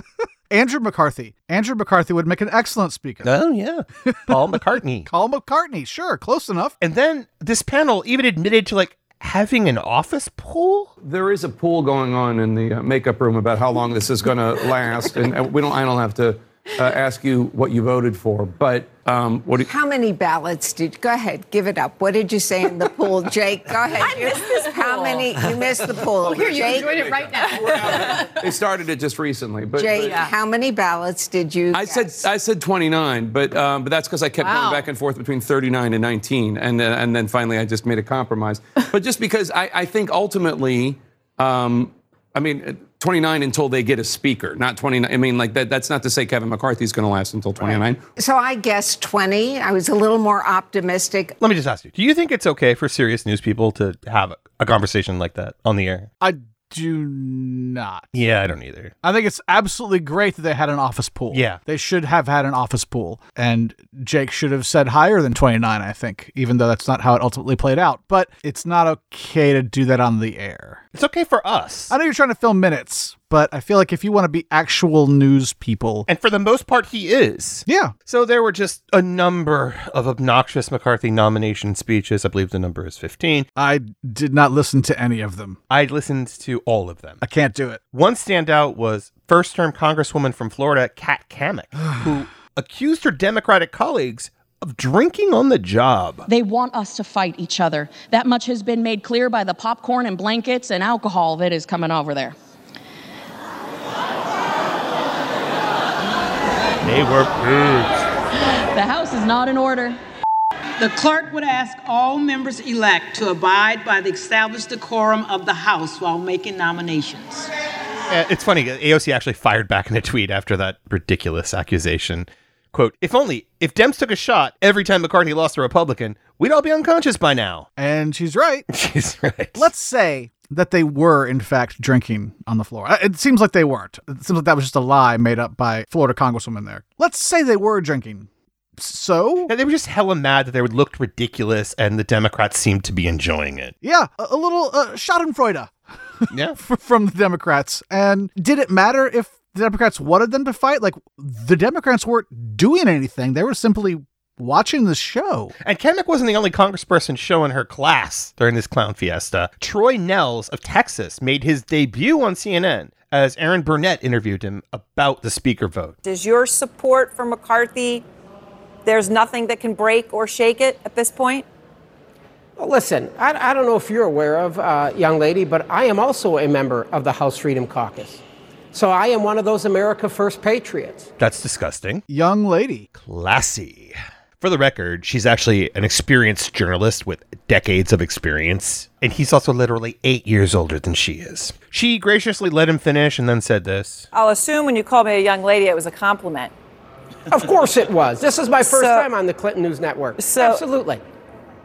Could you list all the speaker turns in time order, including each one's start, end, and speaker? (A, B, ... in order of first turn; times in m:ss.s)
0:00.5-0:03.3 A
0:03.2-0:05.1 B
0:05.1-0:06.7 A
0:06.8-0:10.9 B
0:11.0-0:19.7 C
0:19.7-0:27.4 D
0:24.4-0:25.2 E
0:26.2-0:30.3 C
0:29.8-0:32.2 D
0:31.7-0:48.0 C
0:48.2-0:51.4 D
0:51.4-0:56.1 B
0:56.2-0:58.1 A
0:58.1-0:58.9 B
0:59.0-1:10.8 A
1:01.3-1:01.6 B
1:11.0-1:11.9 B
1:11.9-1:16.1 A
1:16.1-1:23.5 B
1:17.7-1:17.9 A
1:23.6-1:25.6 A
1:25.7-1:27.2 B
1:27.2-1:27.8 A
1:27.9-1:36.3 B
1:36.3-1:42.4 F
1:46.9-1:47.9 B
1:48.7-1:50.0 F
1:50.8-1:57.5 G
1:58.1-2:07.7 B
2:07.8-2:08.7 A
2:08.7-2:09.7 B
2:09.6-2:19.5 A
2:19.5-2:23.7 B
2:23.8-2:25.7 A
2:26.3-2:26.6 B
2:26.6-2:35.5 A
2:35.6-2:46.0 B
2:46.0-2:48.0 E
2:48.8-2:51.5 E
2:52.6-3:01.1 H
3:01.2-3:02.0 B
3:02.1-3:02.9 A
3:03.0-3:14.1 B
3:14.1-3:16.5 E
3:17.3-3:21.0 H
3:18.6-3:19.1 E
3:20.2-3:20.6 E